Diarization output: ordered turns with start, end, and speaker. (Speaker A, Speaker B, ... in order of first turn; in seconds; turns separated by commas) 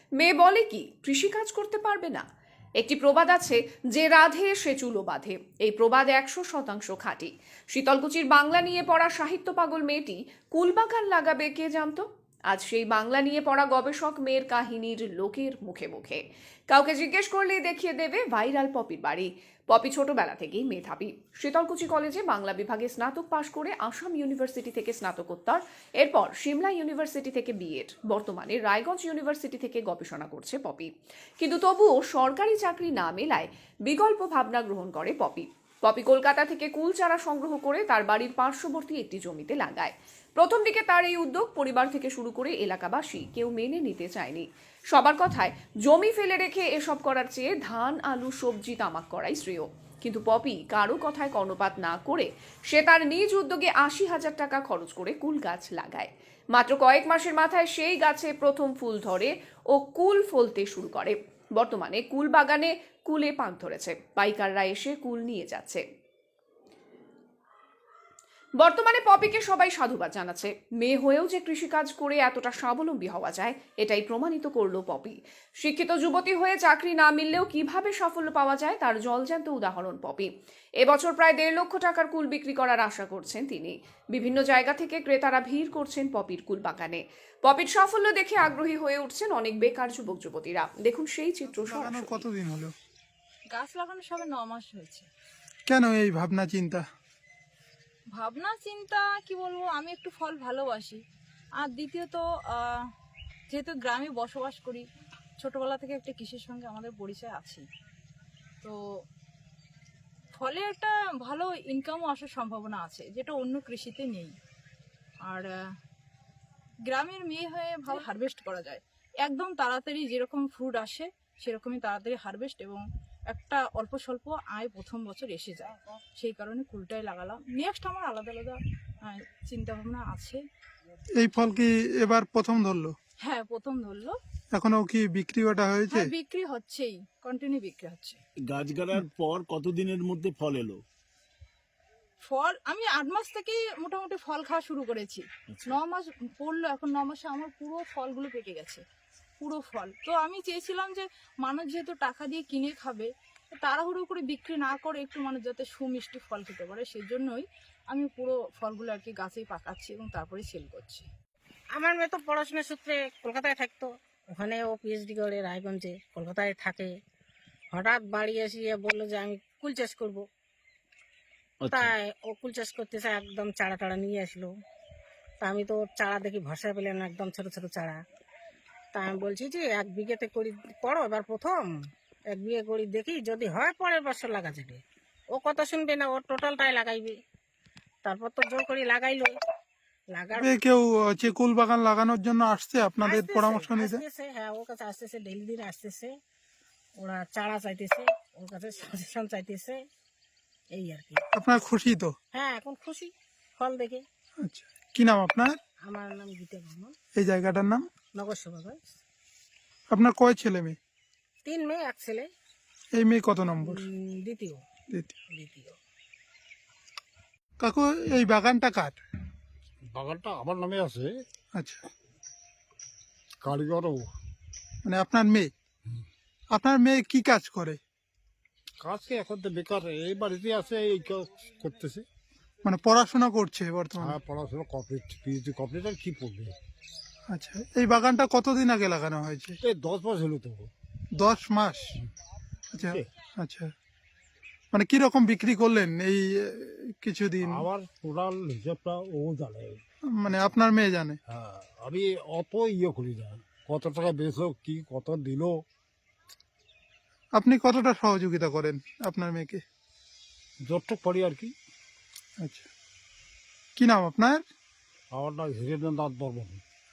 Speaker A: 0.2-2.2, Speaker A: 2.8-30.9, Speaker A: 31.4-65.8, Speaker A: 68.6-80.3, Speaker A: 80.8-92.2, Speaker B: 91.7-92.7, Speaker C: 93.5-95.1, Speaker B: 95.7-96.8, Speaker C: 98.2-101.0, Speaker C: 101.6-102.8, Speaker C: 103.5-104.9, Speaker C: 105.4-107.6, Speaker C: 110.3-114.3, Speaker C: 116.9-130.4, Speaker B: 131.2-132.9, Speaker C: 133.2-134.2, Speaker B: 134.5-136.1, Speaker C: 135.9-138.2, Speaker D: 138.4-140.8, Speaker C: 142.2-148.8, Speaker C: 149.4-161.1, Speaker E: 161.8-166.9, Speaker E: 167.7-170.2, Speaker D: 171.6-171.9, Speaker E: 171.7-174.5, Speaker E: 175.4-178.0, Speaker E: 178.9-181.8, Speaker E: 182.3-184.8, Speaker E: 185.3-187.2, Speaker E: 188.0-189.3, Speaker E: 190.1-190.6, Speaker B: 190.4-194.0, Speaker E: 193.0-196.1, Speaker E: 197.0-199.8, Speaker E: 200.7-201.2, Speaker B: 201.3-202.1, Speaker E: 202.3-204.0, Speaker B: 204.4-205.6, Speaker E: 205.9-206.9, Speaker B: 207.2-207.8, Speaker E: 208.2-208.8, Speaker B: 209.9-210.8, Speaker E: 211.4-212.3, Speaker B: 212.9-213.9, Speaker E: 213.6-214.6, Speaker B: 214.9-215.2, Speaker E: 215.3-215.8, Speaker B: 217.6-219.0, Speaker F: 219.9-221.1, Speaker B: 221.6-221.8, Speaker F: 223.4-224.1, Speaker B: 224.8-225.5, Speaker B: 226.5-227.8, Speaker F: 228.8-232.1, Speaker B: 232.6-234.2, Speaker F: 234.0-236.6, Speaker B: 237.3-239.6, Speaker F: 239.6-240.7, Speaker B: 241.1-241.8, Speaker B: 242.7-243.7, Speaker B: 244.7-247.6, Speaker F: 247.4-249.8, Speaker B: 250.1-251.2, Speaker F: 251.3-255.6, Speaker B: 257.3-259.6, Speaker F: 260.6-261.5, Speaker B: 262.4-262.7, Speaker B: 263.8-264.4, Speaker F: 265.1-266.6